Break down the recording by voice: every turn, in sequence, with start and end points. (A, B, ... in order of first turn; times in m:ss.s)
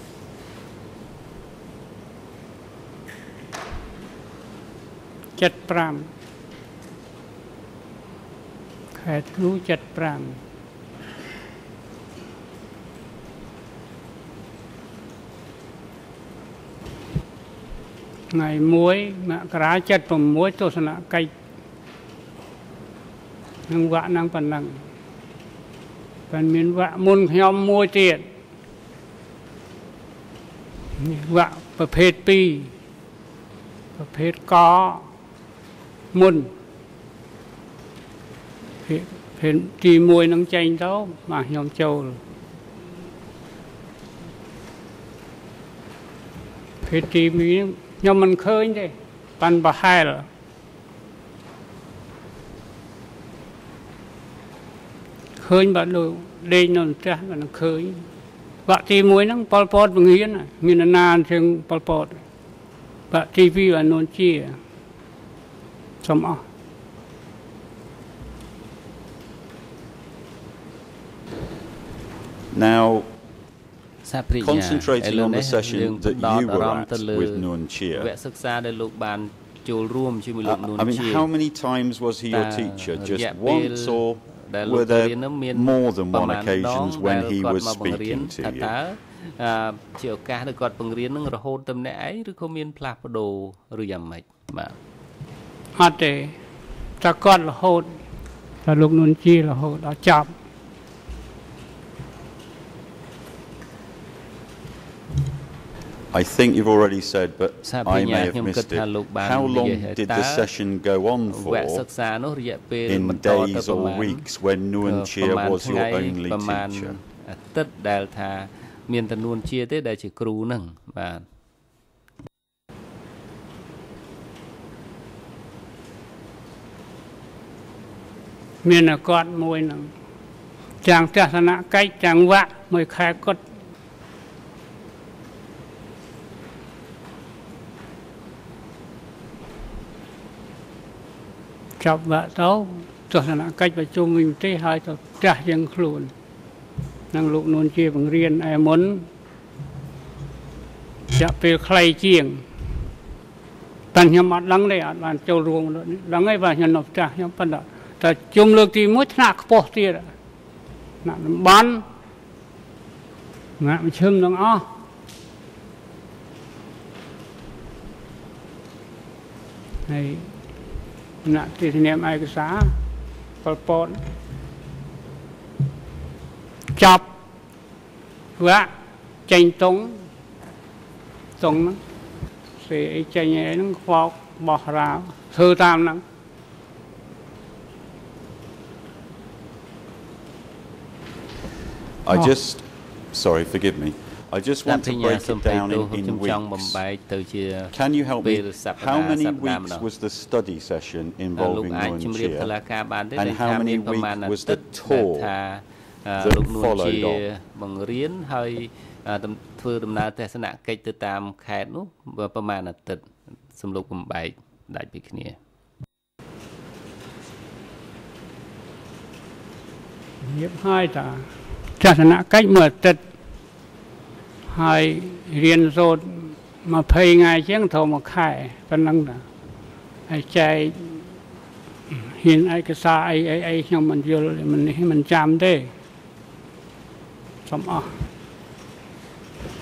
0:05.4-0:06.1 A
0:08.9-0:10.4 A
0:18.3-0:21.3 A
0:23.7-0:24.8 A
0:26.3-0:28.2 A
0:31.0-0:32.7 A
0:34.0-0:35.1 A
0:36.1-0:36.5 A
0:38.9-0:42.2 A
0:46.8-0:50.3 A
0:55.4-0:58.0 A
0:58.6-1:02.2 A
1:03.1-1:04.6 A
1:06.0-1:06.4 A
1:12.5-1:13.1 B
1:14.0-1:21.3 C
1:14.4-1:18.1 B
1:20.4-1:28.7 B
1:22.3-1:34.8 C
1:35.8-1:36.4 A
1:37.0-1:37.9 A
1:38.6-1:40.3 A
1:46.1-1:51.8 B
1:47.6-1:50.5 C
1:51.3-1:54.2 C
1:52.9-1:57.0 B
1:54.8-2:01.2 C
2:08.6-2:09.9 A
2:10.8-2:13.4 A
2:21.8-2:26.1 A
2:27.1-2:29.1 A
2:31.1-2:32.4 A
2:33.9-2:40.1 A
2:41.0-2:41.8 A
2:43.6-2:44.6 A
2:49.9-2:50.3 A
2:51.2-2:52.7 A
2:53.4-2:54.0 A
2:56.8-2:57.1 A
2:58.4-2:58.7 A
2:59.3-3:00.0 A
3:01.4-3:01.8 A
3:02.6-3:06.0 A
3:12.0-3:16.8 B
3:14.6-3:19.8 C
3:17.7-3:22.5 B
3:21.4-3:35.4 C
3:23.2-3:25.3 B
3:26.2-3:27.2 B
3:40.2-3:41.3 A
3:41.8-3:43.0 A
3:44.5-3:49.2 A
3:50.1-3:51.1 A
3:51.9-3:55.7 A
3:57.5-3:57.9 A